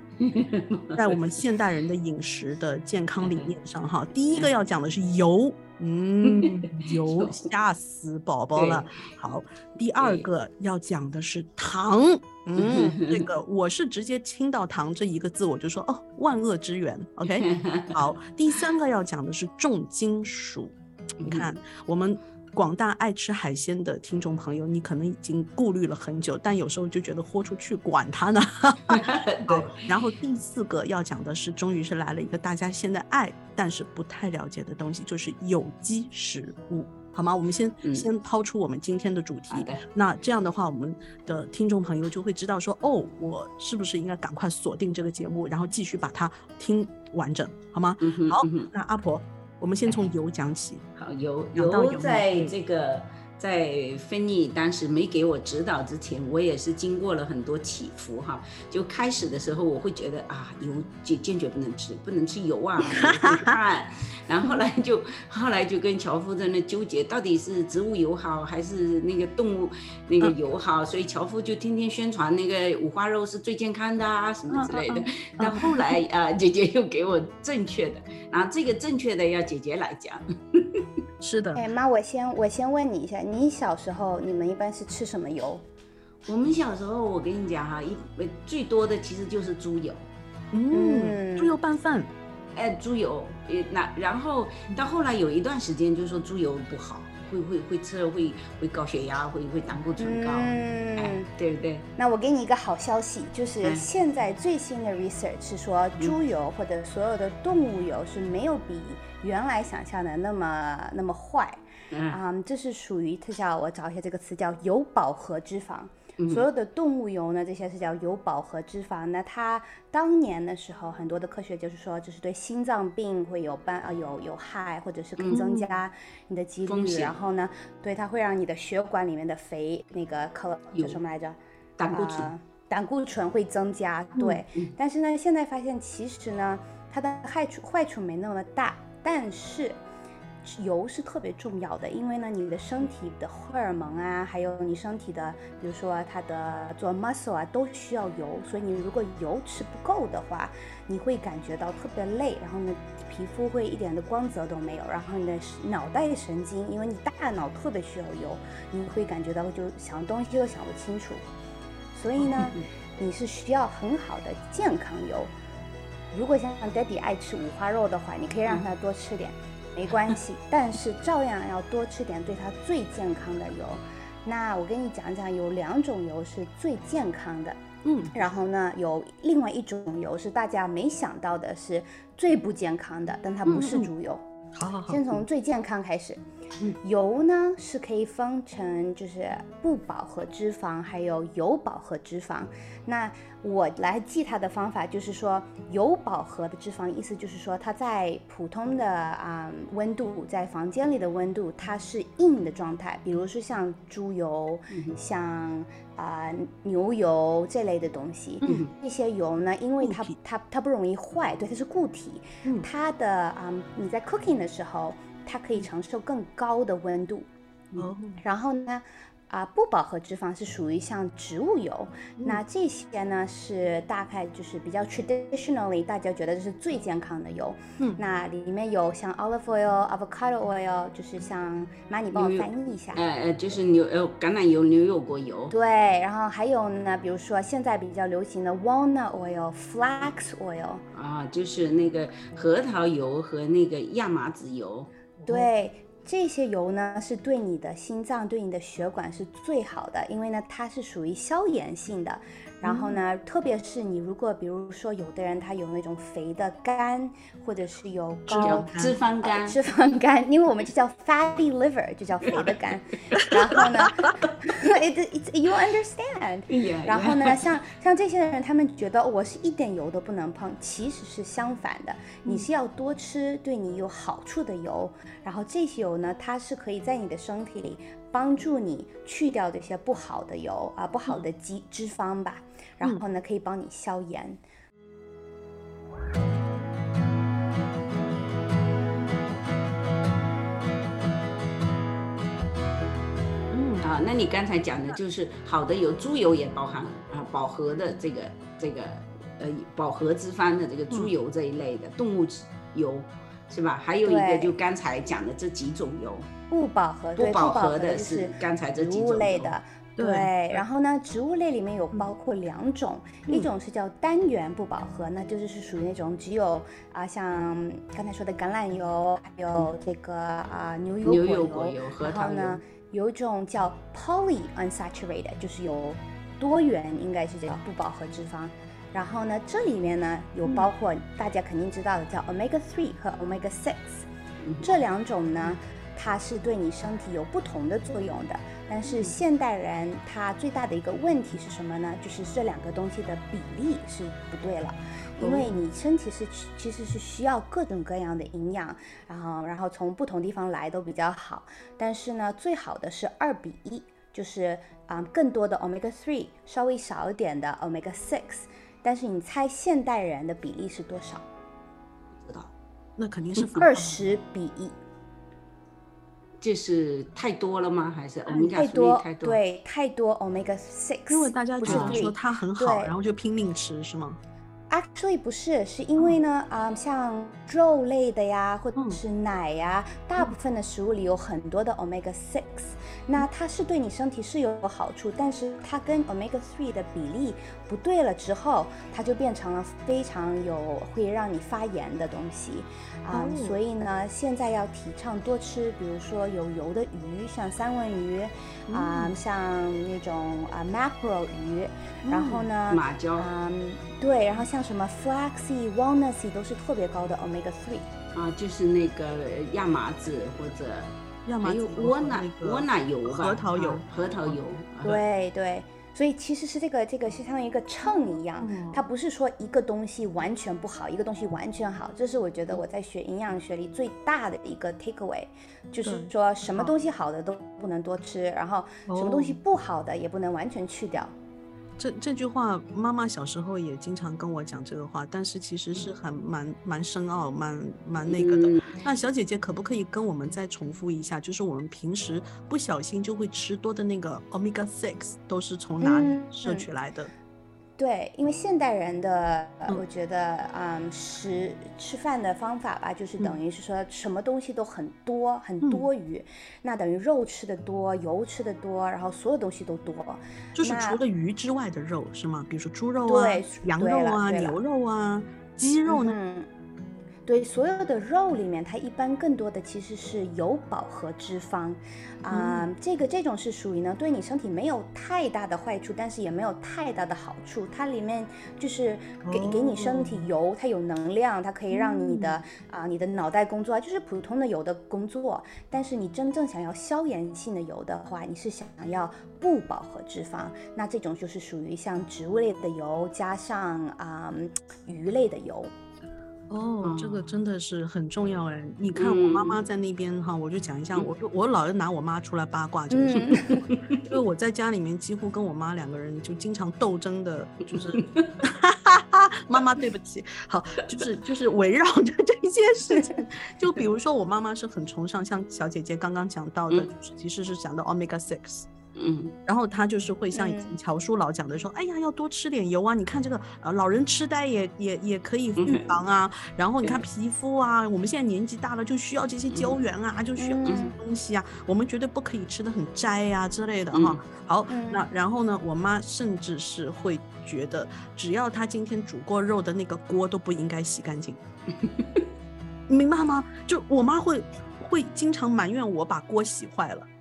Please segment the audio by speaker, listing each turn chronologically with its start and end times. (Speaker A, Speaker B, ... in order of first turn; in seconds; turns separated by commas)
Speaker A: 0.2-1.2, Speaker B: 0.9-50.8, Speaker A: 3.2-3.5, Speaker A: 6.2-7.5, Speaker A: 8.5-9.1, Speaker A: 10.0-10.3, Speaker A: 12.6-13.2, Speaker A: 17.3-18.0, Speaker A: 21.2-21.6, Speaker A: 28.9-29.9, Speaker A: 37.8-38.1, Speaker A: 39.5-39.8, Speaker A: 48.0-48.7, Speaker A: 51.0-80.9, Speaker B: 51.5-52.5, Speaker B: 62.9-63.6, Speaker B: 74.5-76.0, Speaker B: 81.2-81.6, Speaker C: 81.5-85.6, Speaker A: 86.2-90.1, Speaker B: 90.5-92.1, Speaker C: 90.7-91.5, Speaker A: 92.5-101.8, Speaker C: 100.0-101.3, Speaker C: 102.0-131.4, Speaker A: 111.9-112.2, Speaker A: 116.2-116.5, Speaker A: 125.2-125.5, Speaker B: 125.3-125.7, Speaker A: 126.7-127.1, Speaker A: 131.8-132.3, Speaker C: 131.9-139.8, Speaker C: 140.4-161.2, Speaker C: 161.9-165.3, Speaker C: 166.1-177.6, Speaker B: 177.8-178.1, Speaker C: 178.1-184.2, Speaker B: 183.4-183.9, Speaker B: 184.5-185.2, Speaker C: 184.9-186.2, Speaker C: 186.8-217.3, Speaker A: 208.4-208.7, Speaker B: 209.8-210.2, Speaker B: 217.8-218.2, Speaker C: 218.2-233.0, Speaker A: 232.1-235.5, Speaker C: 235.5-240.8, Speaker A: 240.9-245.0, Speaker C: 245.3-258.7, Speaker B: 258.3-259.0, Speaker A: 258.4-259.6, Speaker C: 259.2-284.4, Speaker B: 263.2-263.9, Speaker A: 266.5-267.4, Speaker B: 293.5-293.9, Speaker A: 293.8-306.3, Speaker C: 304.0-304.5, Speaker C: 306.5-334.1, Speaker A: 307.1-309.5, Speaker B: 310.0-310.6, Speaker A: 321.0-322.6, Speaker A: 334.4-334.8, Speaker C: 334.6-361.2, Speaker A: 345.2-345.5, Speaker A: 362.2-362.5, Speaker B: 363.0-364.1, Speaker C: 363.6-364.8, Speaker A: 366.4-369.4, Speaker C: 368.5-372.9, Speaker B: 371.1-374.2, Speaker A: 371.6-372.0, Speaker C: 374.7-407.9, Speaker B: 378.7-379.0, Speaker B: 393.1-393.6, Speaker B: 398.7-399.1, Speaker B: 402.0-402.5, Speaker A: 402.7-403.3, Speaker A: 408.1-415.0, Speaker B: 411.2-414.4, Speaker C: 414.8-431.1, Speaker B: 418.4-418.8, Speaker B: 425.8-426.7, Speaker B: 428.9-429.4, Speaker B: 431.8-447.1, Speaker A: 438.0-438.7, Speaker C: 445.8-446.6, Speaker C: 447.8-461.0, Speaker B: 460.5-466.1, Speaker C: 463.0-464.6, Speaker C: 465.9-466.5, Speaker C: 467.3-495.7, Speaker B: 472.3-472.6, Speaker B: 479.2-480.2, Speaker B: 481.7-482.4, Speaker B: 496.5-518.7, Speaker A: 496.8-497.3, Speaker A: 498.9-499.6, Speaker C: 502.9-503.6, Speaker A: 503.4-504.0, Speaker A: 507.7-508.4, Speaker A: 518.9-519.4, Speaker B: 519.5-541.4, Speaker C: 520.3-520.7, Speaker A: 525.6-526.0, Speaker A: 529.5-529.8, Speaker C: 530.4-530.9, Speaker A: 533.9-534.2, Speaker C: 534.7-535.0, Speaker A: 541.8-542.2, Speaker B: 542.9-547.1